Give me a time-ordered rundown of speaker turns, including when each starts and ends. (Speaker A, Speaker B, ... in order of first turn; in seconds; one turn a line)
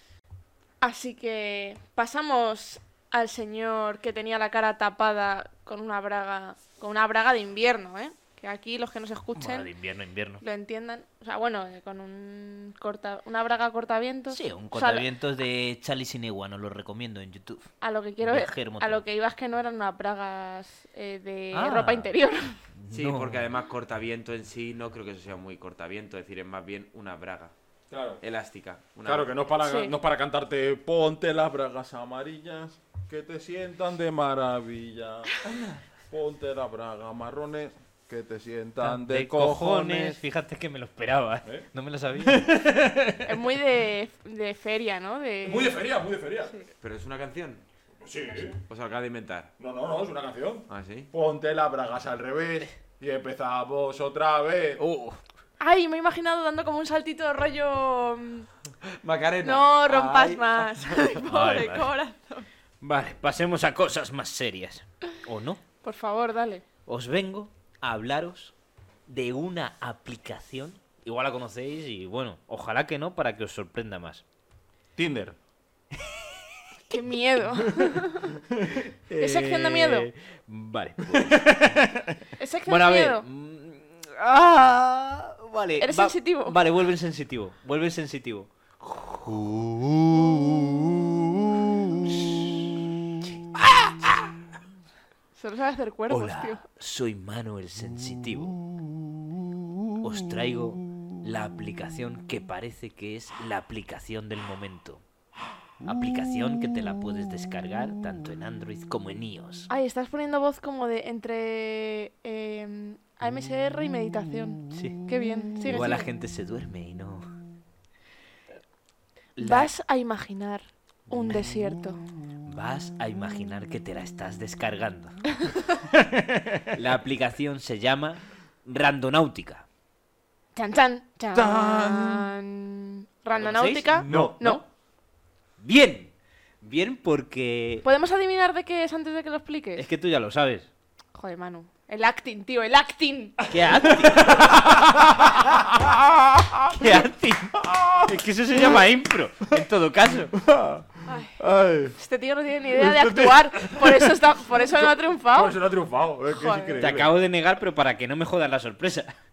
Speaker A: 0.8-9.7
Speaker B: 9.3-10.4
Speaker A: 10.4-15.1
Speaker B: 14.3-17.7
Speaker A: 17.8-22.6
Speaker B: 18.2-19.0
Speaker B: 21.5-22.1
Speaker B: 22.7-23.4
Speaker C: 22.9-27.5
Speaker D: 27.9-28.2
Speaker C: 28.2-29.3
Speaker D: 29.0-40.2
Speaker A: 29.6-29.9
Speaker B: 38.8-42.5
Speaker D: 42.2-43.6
Speaker A: 43.2-45.8
Speaker D: 45.4-46.5
Speaker C: 46.8-47.6
Speaker D: 48.0-48.6
Speaker C: 48.7-49.5
Speaker D: 49.6-54.8
Speaker C: 50.7-51.1
Speaker B: 54.8-55.2
Speaker A: 55.6-58.5
Speaker C: 58.8-61.3
Speaker A: 59.4-62.5
Speaker B: 61.3-61.9
Speaker B: 62.8-65.6
Speaker A: 65.8-66.6
Speaker B: 66.9-68.5
Speaker B: 69.1-74.2
Speaker D: 75.0-75.3
Speaker A: 76.9-78.3
Speaker D: 77.8-78.8
Speaker B: 79.1-81.5
Speaker A: 79.2-80.1
Speaker D: 81.1-82.1
Speaker A: 82.4-83.2
Speaker B: 82.7-90.6
Speaker A: 85.8-86.5
Speaker B: 92.0-92.6
Speaker B: 93.2-94.3
Speaker A: 95.3-96.6
Speaker B: 96.1-98.6
Speaker B: 100.0-105.0
Speaker B: 105.8-109.7
Speaker A: 109.7-116.1
Speaker B: 115.7-117.3
Speaker B: 119.4-119.7
Speaker A: 119.4-122.0
Speaker B: 122.5-125.2
Speaker D: 125.9-126.7
Speaker B: 126.7-129.7
Speaker A: 130.5-134.6
Speaker D: 131.3-132.3
Speaker B: 133.3-134.6
Speaker D: 134.1-134.4
Speaker B: 135.6-137.8
Speaker A: 137.8-139.9
Speaker B: 139.8-140.7
Speaker A: 141.1-143.5
Speaker B: 143.5-144.6
Speaker D: 144.0-147.0
Speaker B: 146.7-150.3
Speaker D: 147.6-148.8
Speaker D: 150.3-151.9
Speaker A: 151.1-151.4
Speaker A: 151.9-155.6
Speaker D: 152.7-157.1
Speaker A: 156.3-156.8
Speaker B: 156.8-159.2